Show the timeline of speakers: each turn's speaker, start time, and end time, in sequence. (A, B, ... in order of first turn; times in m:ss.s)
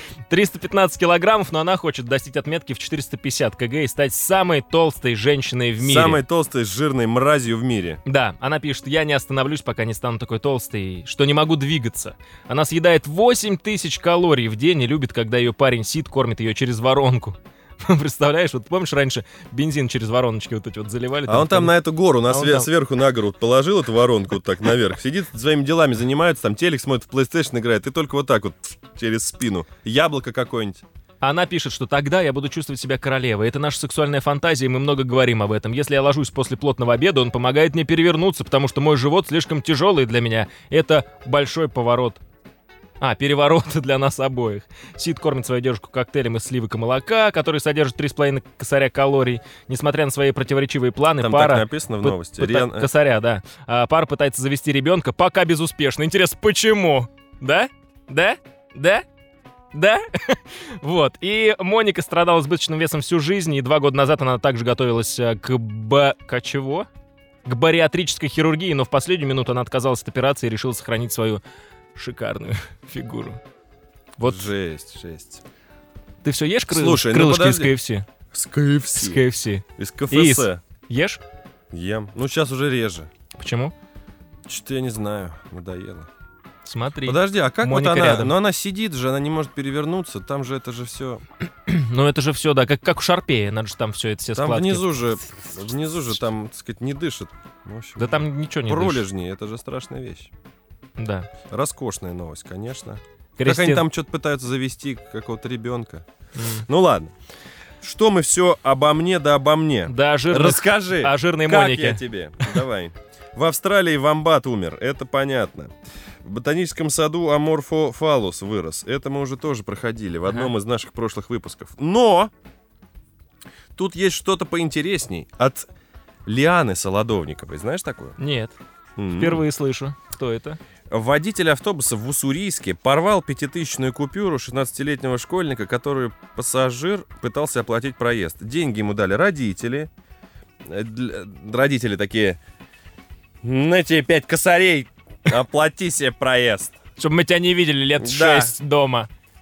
0:00.3-0:06.2 A
0:05.8-0:08.0 B
0:08.0-0:21.7 A
0:21.3-0:30.8 B
0:22.3-0:22.7 A
0:31.2-0:42.2 A
0:43.0-0:59.0 A
0:51.2-0:52.9 B
0:59.7-1:06.9 A
1:07.4-1:11.4 A
1:12.0-1:13.4 A
1:14.2-1:14.5 A
1:14.2-1:15.4 B
1:16.2-1:18.1 A
1:16.7-1:17.7 B
1:18.3-1:19.2 B
1:19.0-1:21.2 A
1:19.8-1:20.6 B
1:21.7-1:23.1 B
1:23.4-1:23.7 A
1:24.5-1:26.1 B
1:26.6-1:28.3 A
1:27.1-1:31.2 B
1:31.7-1:35.0 A
1:34.4-1:40.3 B
1:38.0-1:39.0 A
1:41.0-1:41.3 A
1:41.5-1:46.1 B
1:43.4-1:43.8 A
1:46.4-1:46.7 A
1:46.7-1:47.1 B
1:47.8-2:02.3 B
1:49.9-1:52.5 A
2:03.8-2:05.7 B
2:06.3-2:08.2 B
2:08.2-2:08.6 A
2:09.0-2:09.4 B
2:09.1-2:10.6 A
2:10.9-2:19.9 B
2:20.7-2:22.4 B
2:23.4-2:26.8 B
2:27.0-2:29.1 A
2:28.0-2:28.5 B